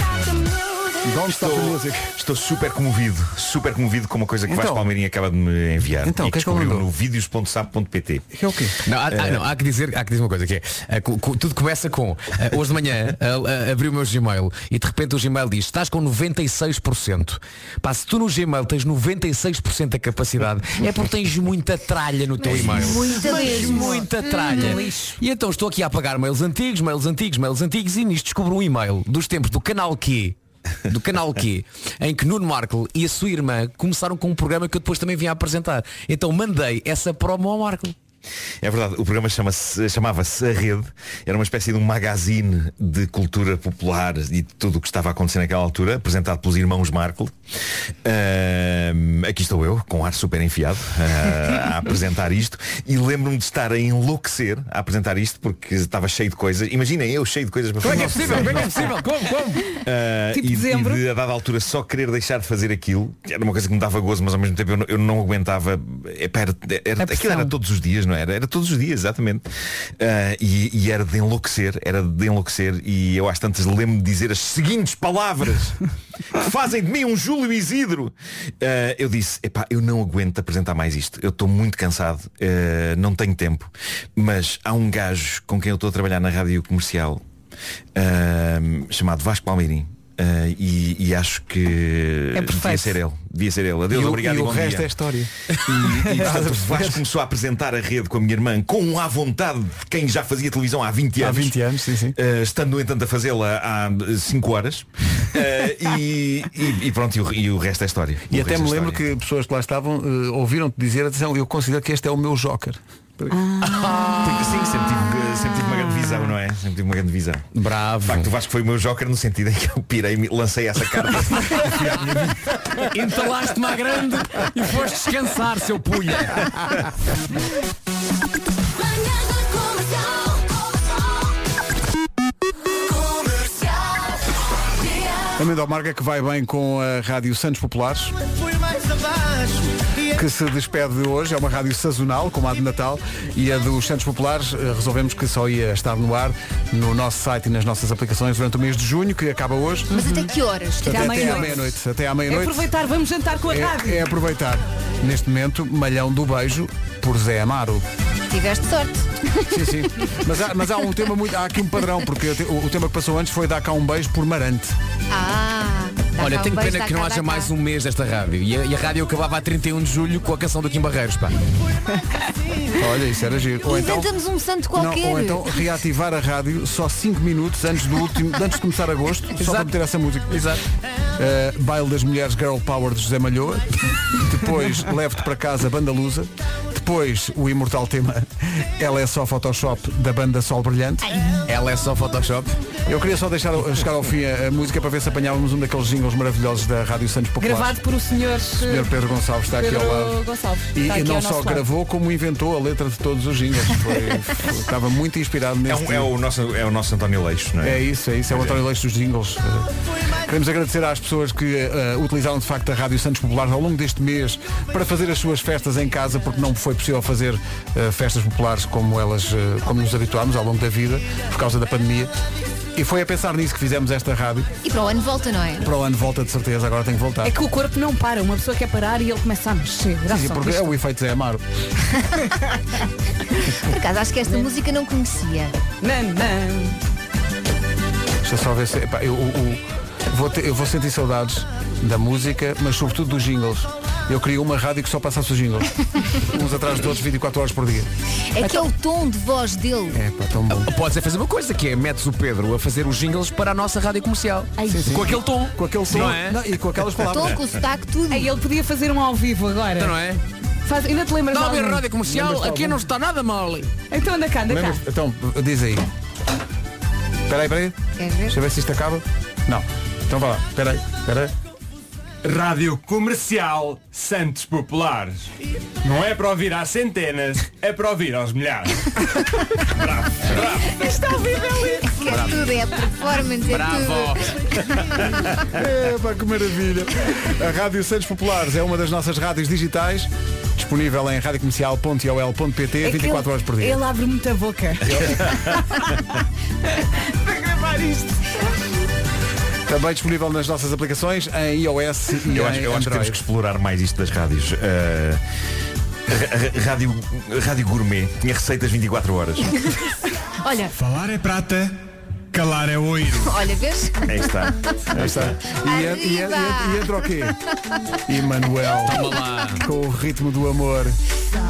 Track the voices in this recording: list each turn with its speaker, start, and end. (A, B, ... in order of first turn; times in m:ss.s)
0:01.0-0:02.1 A
0:01.2-0:08.3 B
0:04.5-0:04.9 A
0:06.0-0:06.8 A
0:08.3-0:08.8 A
0:08.8-0:30.4 C
0:09.0-0:09.4 B
0:22.4-0:24.8 D
0:22.4-0:23.0 B
0:22.9-0:25.2 E
0:30.9-0:37.9 C
0:38.6-0:47.3 B
0:48.0-0:58.9 B
0:57.8-0:59.0 E
0:57.8-0:59.6 C
0:57.8-0:58.7 A
0:59.8-1:09.4 B
1:00.3-1:01.0 E
1:07.0-1:07.5 E
1:10.0-1:15.8 B
1:16.3-1:27.2 B
1:27.9-1:34.9 B
1:32.3-1:33.0 E
1:33.9-1:35.3 A
1:35.6-1:41.6 B
1:36.1-1:37.0 A
1:41.2-1:42.1 A
1:42.2-1:49.0 B
1:48.3-1:53.4 A
1:53.3-1:54.2 E
1:53.6-1:54.2 C
1:54.0-1:57.5 B
1:57.5-1:58.3 C
1:58.0-2:02.0 B
2:01.5-2:06.8 C
2:01.7-2:02.3 A
2:15.3-2:18.1 A
2:20.1-2:30.0 A
2:29.9-2:30.3 E
2:29.9-2:31.5 D
2:30.8-2:32.7 A
2:30.8-2:31.7 E
2:32.3-2:34.0 E
2:33.5-2:37.8 A
2:38.3-2:39.5 D
2:39.5-2:44.8 A
2:45.1-2:47.5 D
2:46.2-2:51.4 C
2:52.7-2:54.1 A
2:53.6-2:55.6 D
2:54.7-3:00.6 A
2:59.4-2:59.7 C
3:00.3-3:00.6 C
3:01.2-3:11.2 A
3:11.4-3:12.6 C
3:12.8-3:17.8 A
3:17.4-3:18.9 E
3:18.6-3:20.2 A
3:19.6-3:21.6 E
3:20.7-3:26.1 A
3:25.7-3:28.6 B
3:27.6-3:29.7 A
3:30.2-3:42.1 A
3:42.7-3:44.5 A
3:44.6-3:45.7 D
3:45.6-3:47.3 A
3:47.2-3:50.7 E
3:50.1-3:51.4 A
3:53.4-3:55.5 D
3:55.8-3:56.8 E
3:58.2-4:07.9 A
4:08.3-4:10.0 D
4:08.4-4:08.7 E
4:09.9-4:10.7 A
4:10.5-4:16.4 C
4:14.7-4:17.4 A
4:16.9-4:18.3 D
4:18.1-4:19.9 E
4:19.8-4:20.2 C
4:20.6-4:21.8 E
4:21.3-4:23.7 C
4:22.0-4:22.8 A
4:23.9-4:24.8 E
4:24.5-4:25.9 A
4:27.3-4:31.3 A
4:28.0-4:28.4 D
4:32.2-4:35.3 F
4:35.8-4:40.9 F
4:40.6-4:42.1 E
4:41.8-4:45.2 D
4:42.0-4:42.5 C
4:43.4-4:44.4 C
4:45.5-4:53.8 A
4:52.8-4:55.9 E
4:54.9-4:55.6 B
4:56.8-4:58.2 E
4:59.7-5:03.2 A
5:02.3-5:05.2 B
5:06.1-5:09.6 B
5:10.4-5:10.7 D
5:10.7-5:13.4 F
5:13.2-5:14.1 D
5:14.0-5:15.4 B
5:14.9-5:17.4 A
5:15.6-5:16.9 D
5:18.1-5:21.0 A
5:18.8-5:19.6 C